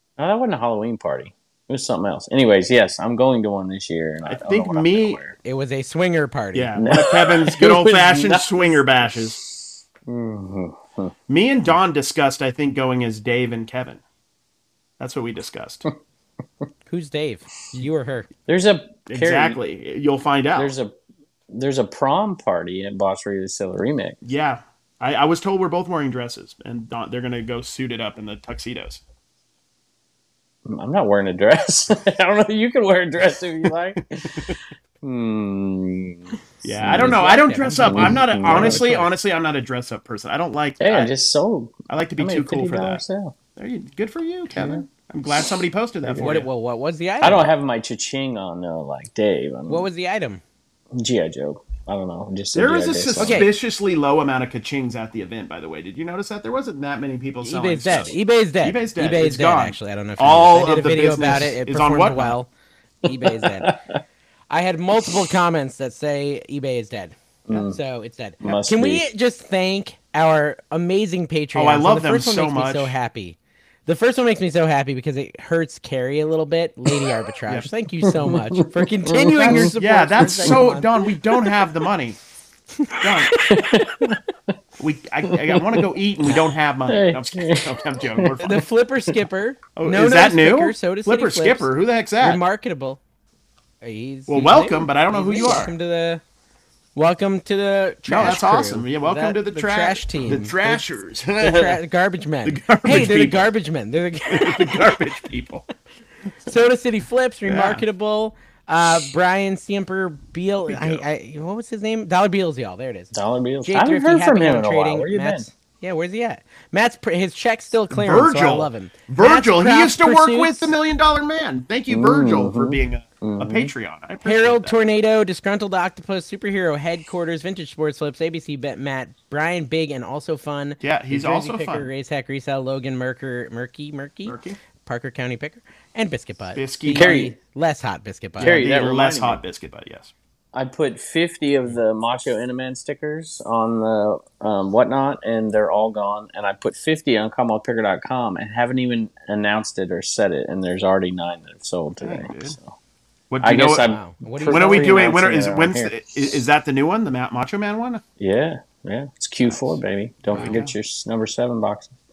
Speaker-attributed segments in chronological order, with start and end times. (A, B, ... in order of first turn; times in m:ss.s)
0:00.2-0:05.4 A
0:04.2-0:05.2 B
0:05.4-0:06.8 C
0:06.5-0:09.4 B
0:06.8-0:11.1 A
0:11.3-0:14.0 B
0:15.0-0:15.8 B
0:16.9-0:18.3 C
0:18.5-0:19.6 A
0:19.1-0:20.8 B
0:20.6-0:20.9 A
0:21.5-0:24.2 A
0:24.2-0:29.0 B
0:30.6-0:38.9 A
0:34.3-0:34.6 B
0:36.6-0:41.1 B
0:36.8-0:39.1 C
0:40.8-0:43.3 A
0:41.9-0:43.0 B
0:43.6-0:46.5 B
0:44.5-0:44.8 A
0:46.0-0:46.4 A
0:46.2-0:47.5 C
0:47.2-0:49.9 A
0:49.7-0:50.4 C
0:51.0-0:53.4 A
0:52.5-1:02.4 B
0:53.2-0:53.5 C
0:57.4-1:02.5 C
1:03.0-1:03.8 C
1:03.0-1:04.0 A
1:04.5-1:21.0 C
1:07.5-1:07.8 A
1:08.4-1:09.0 A
1:11.5-1:12.9 B
1:18.0-1:20.7 A
1:19.5-1:22.2 B
1:22.8-1:23.6 C
1:23.0-1:23.5 B
1:23.4-1:24.5 A
1:24.8-1:28.6 B
1:25.3-1:25.9 A
1:26.9-1:28.6 A
1:28.4-1:33.0 C
1:29.8-1:32.4 B
1:33.8-1:36.2 C
1:34.3-1:35.7 B
1:36.9-1:40.8 C
1:38.0-1:41.8 B
1:41.4-1:44.9 C
1:42.4-1:43.5 B
1:44.3-1:45.6 B
1:46.5-2:00.7 C
1:47.4-1:47.8 B
1:50.7-1:51.0 B
1:53.1-1:55.5 A
1:57.9-2:04.8 B
2:01.9-2:03.7 A
2:04.2-2:18.6 C
2:10.8-2:11.9 B
2:14.2-2:14.6 B
2:16.5-2:17.2 B
2:16.9-2:17.3 A
2:18.4-2:20.1 B
2:18.4-2:19.4 A
2:20.5-2:32.7 A
2:32.0-2:32.6 B
2:33.3-2:33.9 B
2:33.4-2:35.9 A
2:33.8-2:35.1 C
2:34.4-2:38.0 B
2:38.2-2:41.9 A
2:39.4-2:40.7 B